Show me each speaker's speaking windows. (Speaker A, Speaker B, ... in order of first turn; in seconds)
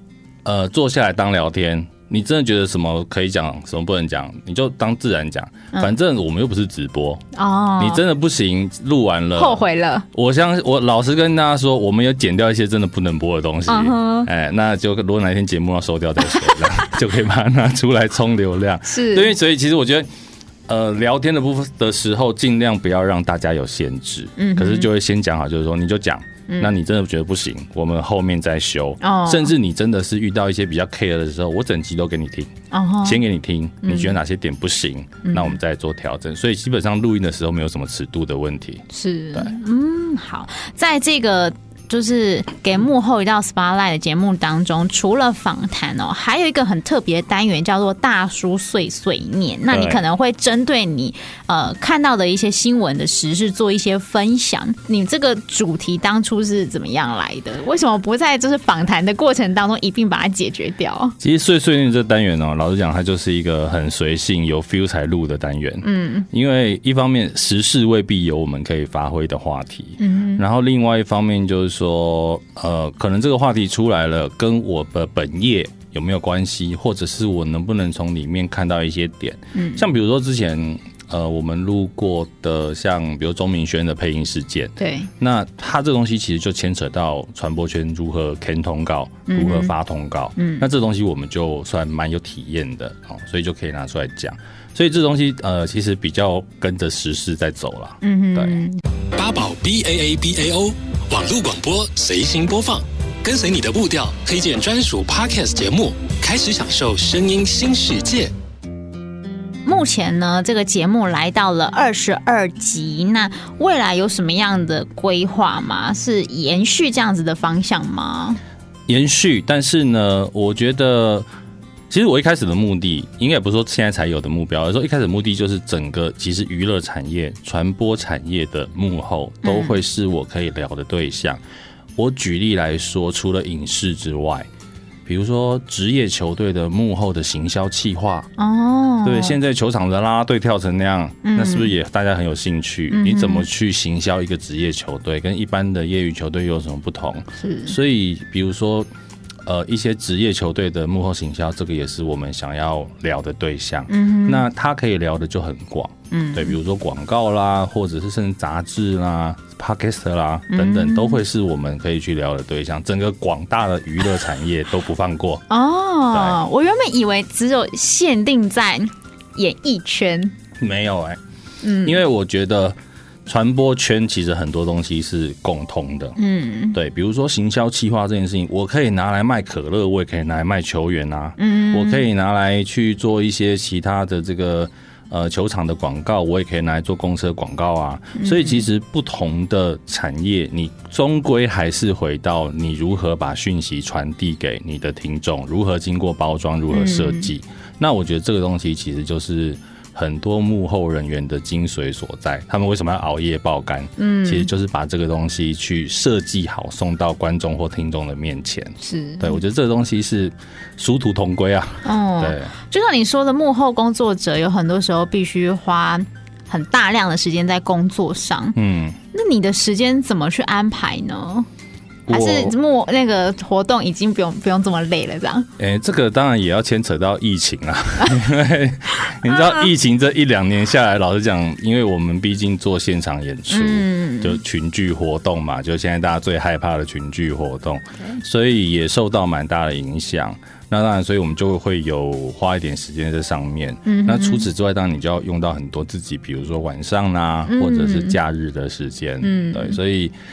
Speaker A: 0.4-7.2, 7.8-20.1, 20.7-32.5, 33.0-39.5, 49.7-50.0, 61.2-98.6, 118.9-121.3, 121.9-131.4, 131.9-134.5, 135.1-138.3, 139.0-148.9, 149.4-165.4, 166.1-166.4, 170.6-171.2, 171.8-176.2, 176.7-212.5, 218.5-219.0, 222.1-222.6, 225.6-250.1
Speaker B: 7.3-8.0, 9.4-10.1, 13.7-14.3, 18.8-19.3, 24.4-24.9, 26.5-26.7, 29.0-29.5, 32.7-33.2, 33.8-34.1, 35.2-35.5, 38.9-61.2, 65.8-66.2, 70.0-70.4, 79.5-79.8, 84.8-85.1, 89.3-89.7, 90.3-90.6, 98.0-98.8, 109.6-118.4, 129.4-129.8, 138.4-139.4, 141.2-141.7, 142.9-143.4, 147.4-147.8, 153.9-154.4, 156.1-156.6, 160.5-161.2, 165.5-170.3, 171.6-172.0, 176.2-176.8, 181.4-182.0, 188.2-188.6, 196.7-197.3, 204.0-204.5, 208.8-209.4, 211.8-218.6, 219.1-221.5, 222.1-225.5, 233.5-234.4, 243.8-244.5, 247.5-248.2, 249.2-249.8
Speaker C: 99.1-108.3